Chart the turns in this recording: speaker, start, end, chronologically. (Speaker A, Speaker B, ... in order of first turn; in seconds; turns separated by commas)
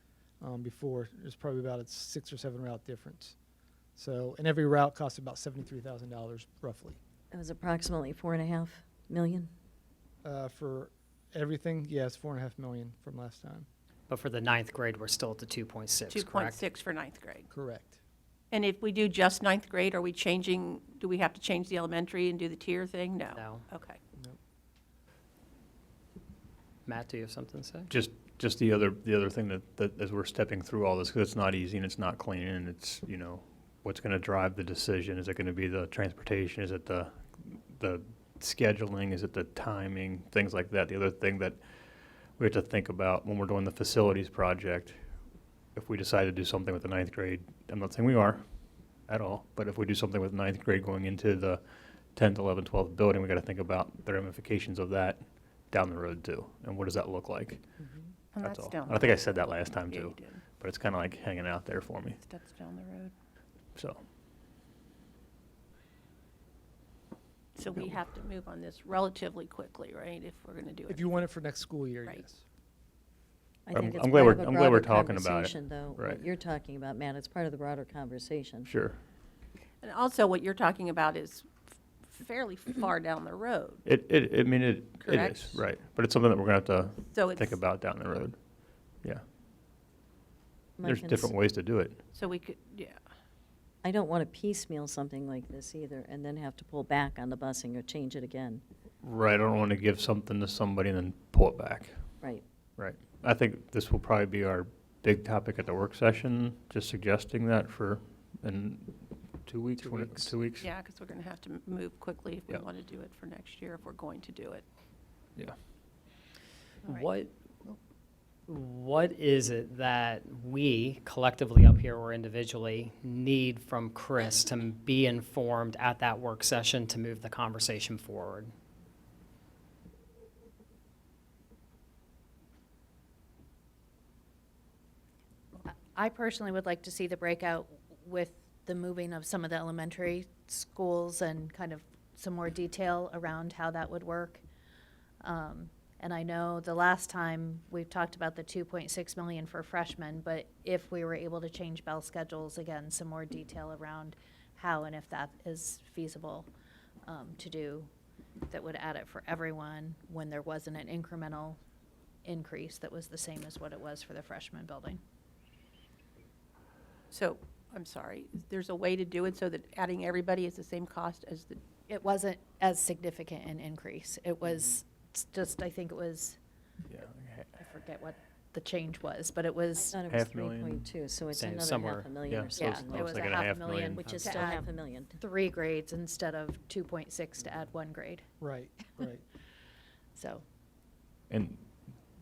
Speaker A: 0.4-3.4, Speaker A: 4.0-7.0, Speaker B: 7.3-9.5, Speaker A: 10.2-13.7, Speaker C: 14.1-16.6, Speaker D: 16.1-17.5, Speaker A: 17.5-18.0, Speaker D: 18.5-24.0, Speaker C: 23.3-23.6, Speaker C: 26.9-27.9, Speaker E: 27.9-41.6, Speaker E: 42.4-45.0, Speaker E: 45.7-48.4, Speaker E: 49.1-51.6, Speaker E: 52.1-57.7, Speaker D: 58.3-60.4, Speaker E: 58.4-62.2, Speaker D: 62.2-63.1, Speaker E: 63.8-64.0, Speaker D: 67.5-71.1, Speaker A: 70.9-72.4, Speaker B: 73.7-78.7, Speaker E: 73.7-76.2, Speaker E: 78.7-79.0, Speaker D: 79.8-81.5, Speaker D: 82.1-83.8, Speaker E: 83.8-88.4, Speaker D: 85.0-85.6, Speaker D: 87.0-87.6, Speaker B: 90.8-91.3, Speaker E: 90.8-92.0, Speaker D: 92.1-93.0, Speaker B: 93.8-98.6, Speaker E: 99.0-102.0, Speaker E: 102.8-110.7, Speaker C: 109.8-110.3, Speaker D: 110.6-114.6, Speaker F: 116.8-117.1, Speaker C: 116.8-117.7, Speaker C: 118.5-128.5, Speaker F: 135.6-144.4, Speaker F: 145.2-156.5, Speaker F: 157.1-157.9, Speaker F: 158.5-161.6, Speaker F: 162.2-165.0, Speaker D: 167.1-171.6, Speaker F: 171.9-176.4, Speaker E: 176.9-177.6, Speaker F: 177.6-179.9, Speaker B: 179.8-183.1, Speaker E: 180.1-180.9, Speaker C: 181.3-182.1, Speaker E: 182.3-184.1, Speaker F: 182.6-188.2, Speaker C: 184.0-184.4, Speaker B: 184.1-185.2, Speaker A: 188.4-189.2, Speaker F: 190.2-190.4, Speaker E: 191.3-191.6